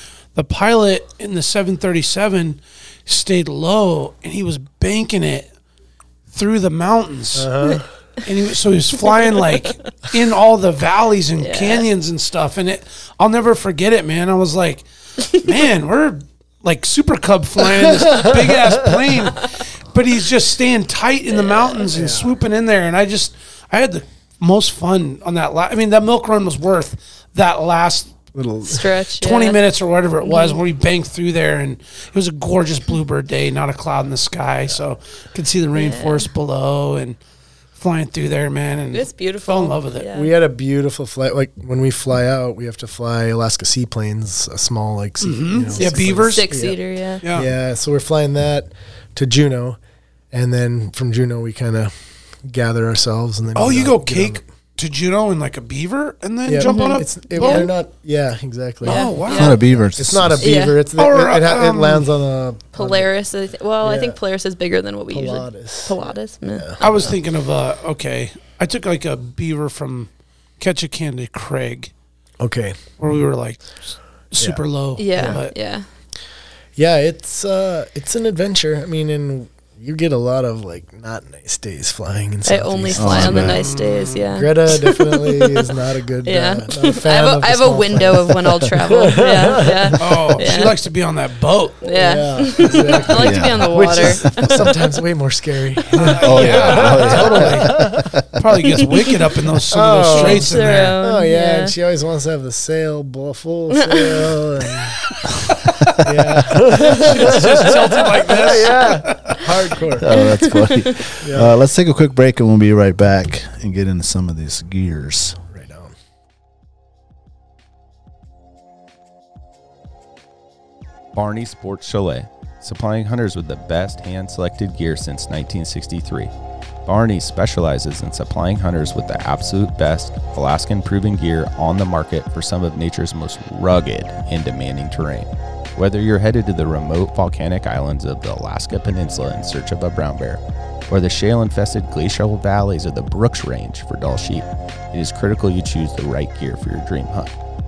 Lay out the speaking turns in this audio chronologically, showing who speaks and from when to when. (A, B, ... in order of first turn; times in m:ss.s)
0:00.3-0:05.5 A
0:06.3-0:07.5 A
0:07.4-0:07.9 B
0:08.2-0:28.1 A
0:11.4-0:11.8 C
0:18.0-0:18.5 B
0:21.3-0:21.8 C
0:21.9-0:22.3 B
0:28.3-0:28.9 B
0:28.6-0:29.6 C
0:29.2-0:37.2 A
0:30.2-0:30.6 C
0:35.7-0:36.3 C
0:37.8-0:40.1 A
0:38.9-0:40.3 C
0:40.1-0:46.8 B
0:45.2-0:46.5 A
0:45.7-0:47.2 C
0:47.2-0:47.5 A
0:47.3-0:49.8 B
0:50.3-0:51.9 B
0:52.5-0:54.4 B
0:53.5-0:57.7 A
0:56.4-1:03.1 B
0:56.6-0:57.7 C
0:58.8-0:59.6 A
0:58.8-0:59.6 C
0:59.3-1:00.5 D
1:00.4-1:00.8 C
1:01.0-1:02.1 A
1:02.7-1:06.7 C
1:03.8-1:04.2 B
1:05.1-1:06.8 B
1:06.8-1:11.9 A
1:12.4-1:12.8 B
1:13.0-1:15.5 A
1:15.0-1:15.8 C
1:16.8-1:23.6 B
1:22.4-1:30.8 C
1:23.0-1:23.6 D
1:23.4-1:24.3 A
1:24.3-1:30.0 B
1:30.0-1:31.9 A
1:31.8-1:34.7 C
1:31.9-1:37.9 B
1:33.1-1:34.4 D
1:35.9-1:41.0 A
1:36.2-1:38.2 D
1:39.7-1:45.0 B
1:40.1-1:41.7 C
1:43.7-1:44.3 C
1:46.0-1:50.2 B
1:46.8-1:49.4 A
1:50.0-1:55.4 D
1:50.2-1:51.0 C
1:51.2-1:51.6 B
1:55.5-1:55.9 B
2:01.1-2:06.3 E
2:06.8-2:27.3 E